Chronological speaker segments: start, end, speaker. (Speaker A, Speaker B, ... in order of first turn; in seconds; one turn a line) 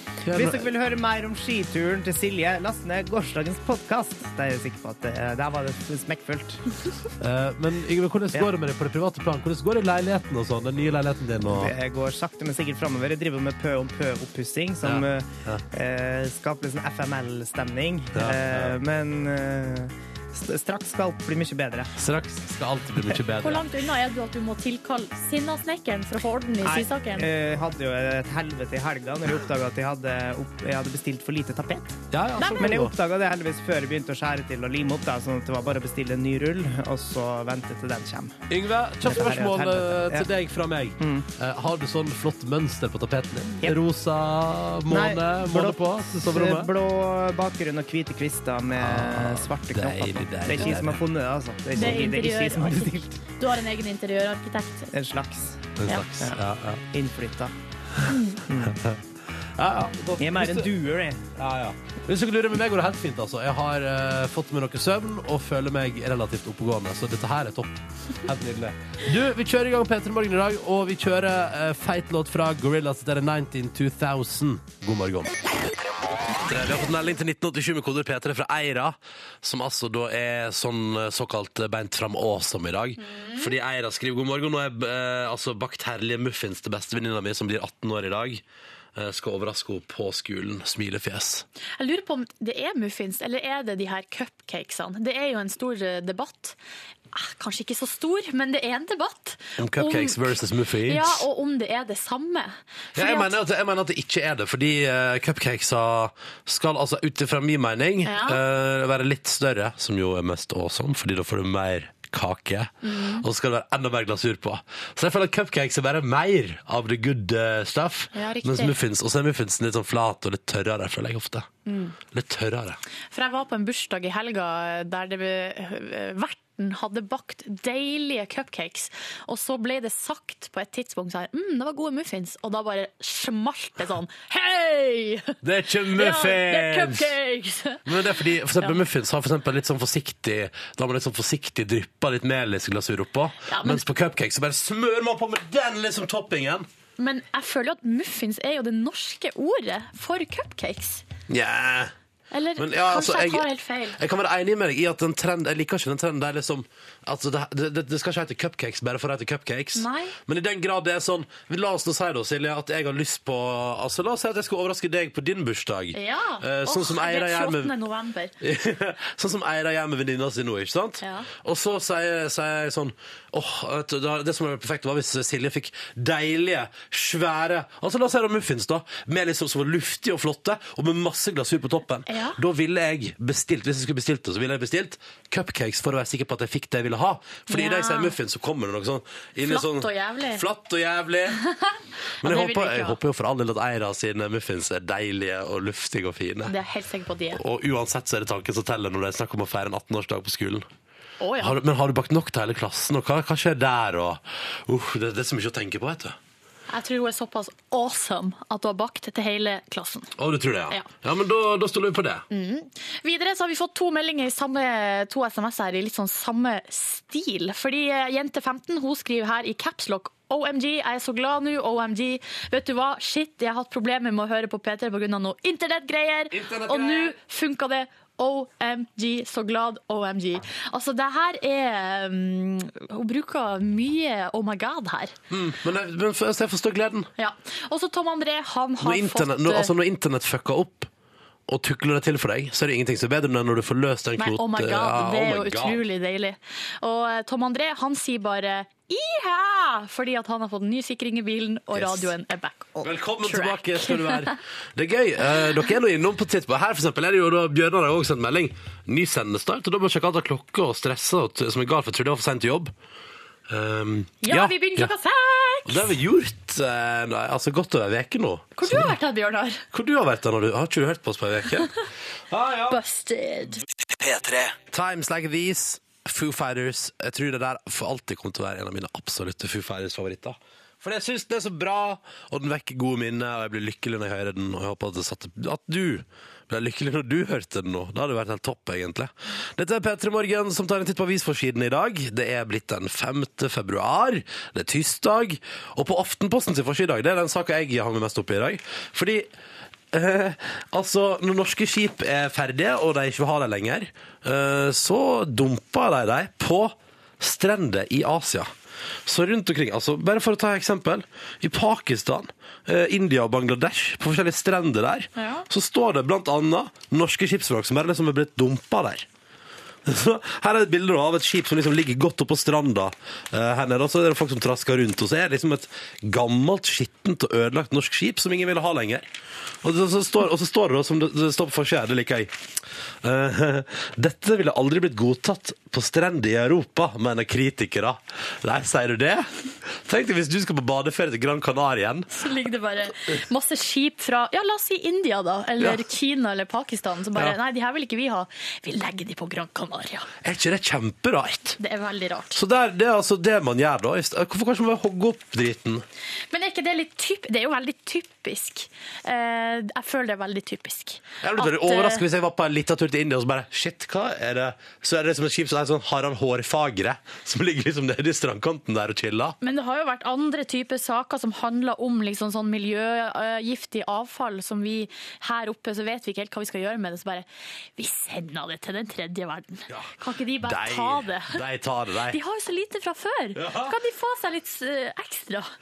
Speaker A: 0.3-0.7
Speaker B: 0.3-6.7
Speaker A: 7.2-11.7
Speaker B: 11.5-22.0
Speaker A: 14.8-15.6
Speaker A: 18.1-18.8
Speaker A: 22.0-23.6
Speaker C: 23.4-27.3
Speaker B: 26.6-32.0
Speaker A: 32.1-32.9
Speaker C: 32.4-32.7
Speaker B: 32.6-38.4
Speaker A: 38.5-46.7
Speaker B: 39.0-40.3
Speaker B: 41.0-41.3
Speaker B: 44.9-53.1
Speaker A: 48.8-51.0
Speaker C: 51.8-54.9
Speaker B: 54.9-57.5
Speaker A: 55.8-56.8
Speaker C: 58.1-58.4
Speaker B: 58.5-58.8
Speaker A: 58.7-59.0
Speaker A: 59.6-60.7
Speaker B: 60.2-61.2
Speaker A: 61.4-75.3
Speaker A: 76.4-88.4
Speaker C: 83.0-83.5
Speaker A: 89.0-91.5
Speaker C: 91.8-96.6
Speaker C: 97.1-100.3
Speaker A: 99.6-101.2
Speaker C: 100.9-103.3
Speaker A: 103.0-121.5
Speaker C: 108.0-108.4
Speaker C: 112.8-113.2
Speaker C: 118.1-118.8
Speaker C: 121.7-122.0
Speaker A: 122.1-122.8
Speaker C: 123.1-135.4
Speaker A: 135.4-137.2
Speaker C: 135.9-138.8
Speaker A: 137.9-146.7
Speaker C: 143.5-143.8
Speaker C: 147.0-151.1
Speaker A: 151.3-151.9
Speaker C: 152.3-154.0
Speaker A: 152.6-167.7
Speaker C: 159.8-160.2
Speaker C: 165.9-168.3
Speaker A: 168.4-191.4
Speaker C: 171.0-171.3
Speaker C: 182.1-182.4
Speaker C: 187.5-188.2
Speaker C: 189.4-190.4
Speaker C: 191.4-193.0
Speaker A: 192.2-196.5
Speaker C: 196.5-197.4
Speaker A: 197.3-200.7
Speaker C: 201.2-201.6
Speaker A: 201.4-206.2
Speaker C: 206.7-210.1
Speaker A: 210.2-212.2
Speaker C: 212.3-235.2
Speaker A: 226.3-227.2
Speaker A: 235.3-237.1
Speaker C: 237.2-239.7
Speaker A: 238.8-240.9
Speaker A: 241.5-245.8
Speaker C: 244.2-254.3
Speaker A: 251.7-252.1
Speaker A: 252.8-262.7
Speaker A: 263.5-264.9
Speaker C: 264.2-265.9
Speaker A: 265.6-268.9
Speaker C: 268.6-269.6
Speaker A: 269.7-271.7
Speaker A: 272.3-272.8
Speaker C: 272.7-273.6
Speaker A: 273.9-299.3
Speaker A: 299.9-308.5
Speaker A: 309.1-319.1
Speaker C: 315.1-315.5
Speaker A: 319.9-329.1
Speaker A: 329.6-332.4
Speaker A: 333.0-342.1
Speaker C: 342.1-350.1
Speaker A: 350.2-351.6
Speaker C: 351.6-352.4
Speaker A: 352.3-355.9
Speaker C: 356.3-362.1
Speaker A: 361.2-369.4
Speaker C: 369.4-377.3
Speaker C: 377.8-381.4
Speaker A: 379.7-382.2
Speaker C: 382.1-385.5
Speaker A: 383.4-383.8